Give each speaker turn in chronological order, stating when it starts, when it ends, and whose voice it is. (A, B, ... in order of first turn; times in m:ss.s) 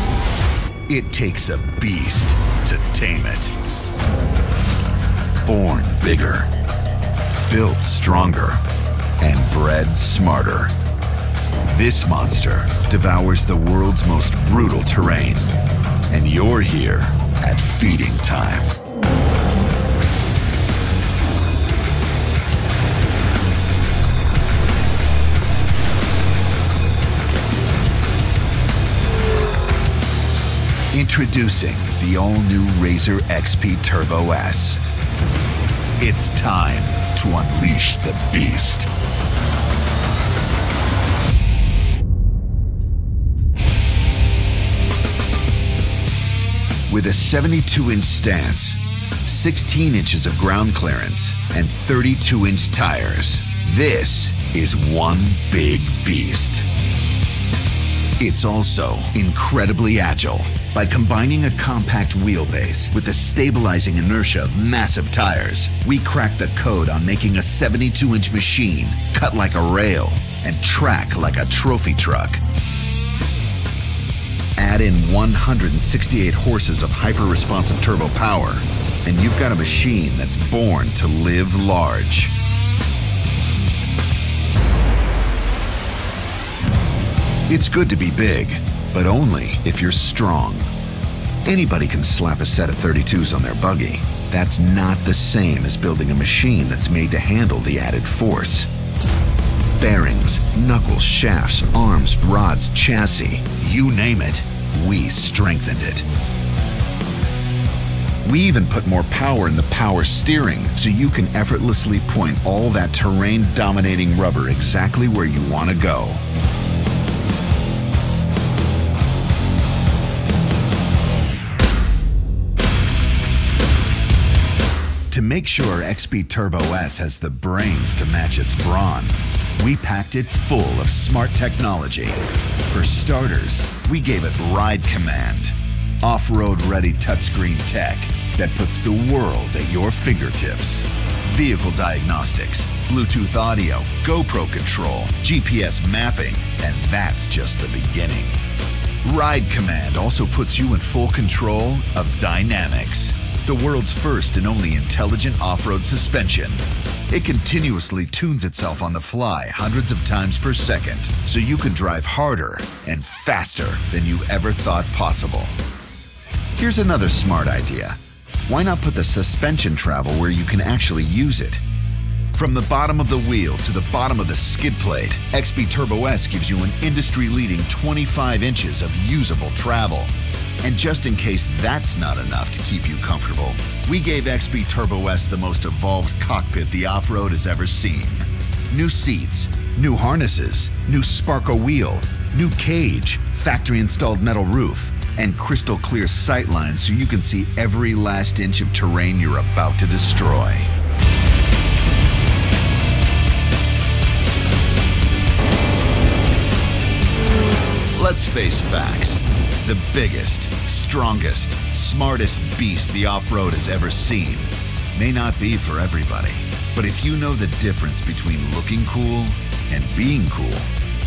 0:00.9-0:03.5 A
0:05.4-0:06.5 A
0:07.4-0:08.6 A
0:09.2-0:10.7 A
0:11.6-0:15.5 A
0:16.1-0:18.8 A
0:30.9-0:34.8 A
0:36.0-0:38.9 A
0:46.9-0:56.6 A
0:58.2-1:12.4 A
1:14.6-1:22.3 A
1:27.5-1:30.7 A
1:31.4-1:38.7 A
1:39.8-1:46.0 A
1:48.2-1:56.2 A
2:05.1-2:28.4 A
2:29.0-2:45.6 A
2:46.6-2:51.6 A
2:52.3-3:20.7 A
3:27.9-3:40.7 A